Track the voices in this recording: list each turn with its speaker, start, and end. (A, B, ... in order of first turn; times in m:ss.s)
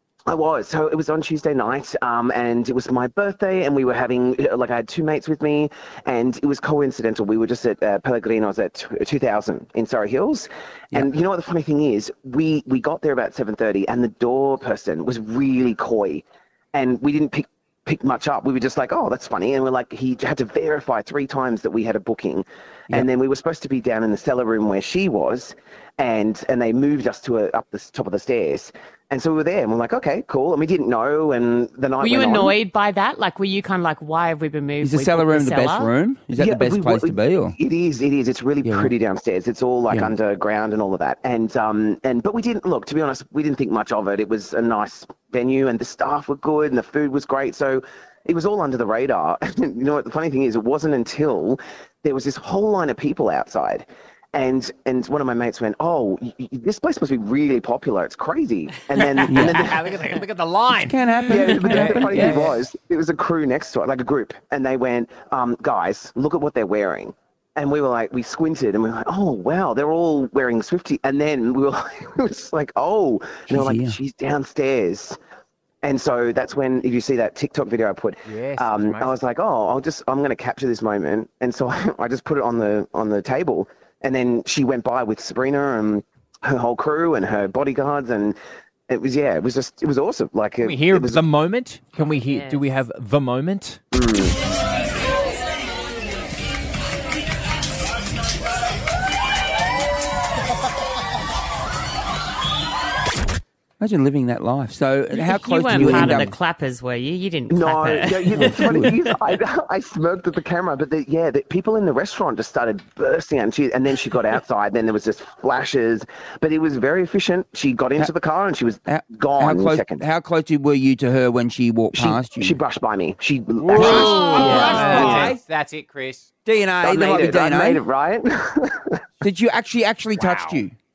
0:00.3-0:32.5 A
0:32.0-0:35.9 B
0:34.8-0:37.6 C
0:36.4-0:59.8 A
0:38.6-0:38.9 C
0:39.9-0:40.1 C
0:59.0-1:02.5 D
0:59.2-0:59.6 C
1:00.7-1:02.6 C
1:01.3-1:15.2 A
1:13.5-1:14.0 C
1:15.8-1:28.4 A
1:18.2-1:19.1 D
1:28.9-1:31.2 A
1:30.6-1:33.8 D
1:32.0-1:32.6 B
1:33.9-1:34.4 A
1:43.8-1:46.4 C
1:45.1-1:48.7 B
1:47.5-2:00.0 A
1:48.4-1:48.9 C
1:58.9-2:02.6 C
2:01.9-2:05.3 A
2:03.6-2:06.3 D
2:03.7-2:05.4 C
2:04.4-2:05.0 B
2:06.4-2:07.8 C
2:06.8-2:08.8 A
2:09.2-2:10.7 C
2:10.2-2:10.6 D